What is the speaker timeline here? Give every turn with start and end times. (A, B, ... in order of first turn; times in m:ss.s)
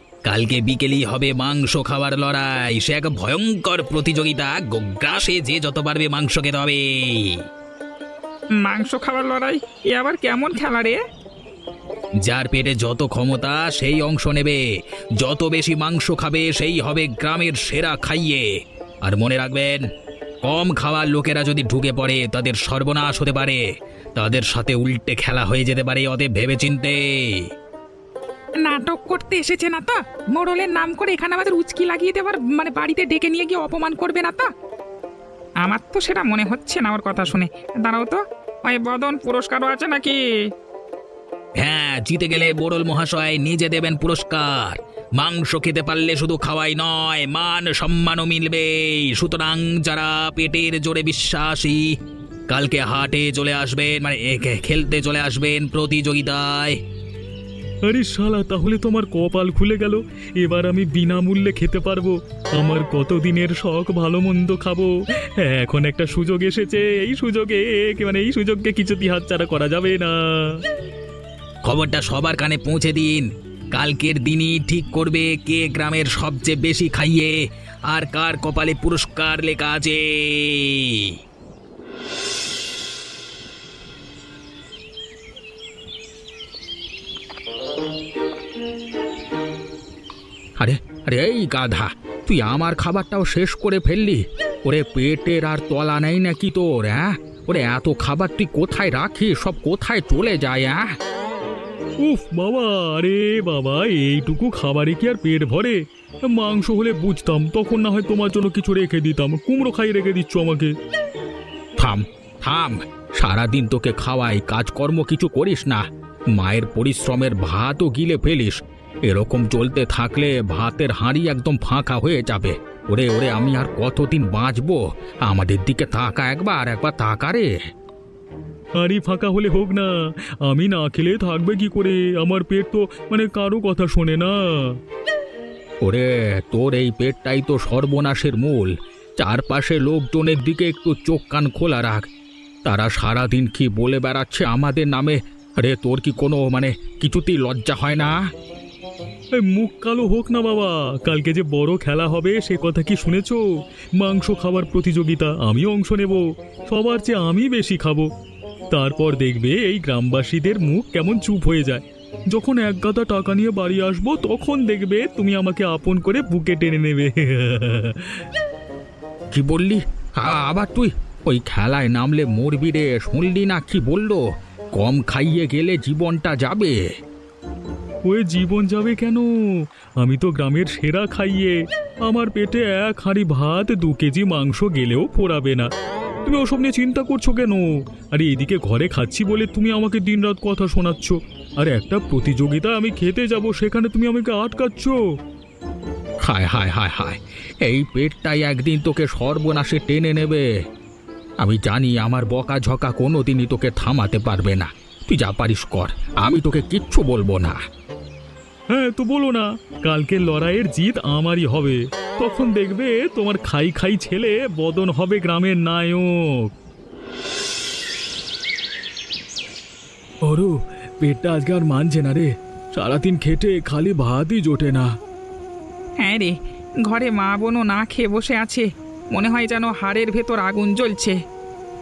0:00.3-0:07.4 A
0:08.6-0:11.0 B
0:12.2-0:14.6 A
0:15.2-0:18.5 A
0:19.0-0:19.8 A
0:20.4-0:23.6 A
0:24.2-0:27.5 A
0:28.6-0:34.5 B
0:35.6-0:40.2 B
0:41.6-0:51.9 A
0:52.5-0:56.8 A
0:57.9-1:10.6 C
1:11.6-1:17.4 A
1:17.9-1:21.1 A
1:30.6-1:40.9 A
1:42.0-1:50.7 C
1:51.8-2:07.5 A
2:08.8-2:09.9 C
2:10.4-2:14.7 C
2:15.8-2:22.1 A
2:22.6-2:28.2 A
2:29.4-2:33.4 C
2:34.0-2:38.1 C
2:38.7-2:48.2 C
2:49.3-2:54.2 A
2:54.8-2:56.8 A
2:58.1-2:59.3 C
3:00.0-3:05.7 C
3:06.2-3:15.0 C
3:16.2-3:20.5 A
3:21.4-3:27.6 A
3:28.7-3:36.5 C
3:40.2-3:44.9 C
3:46.0-3:51.2 B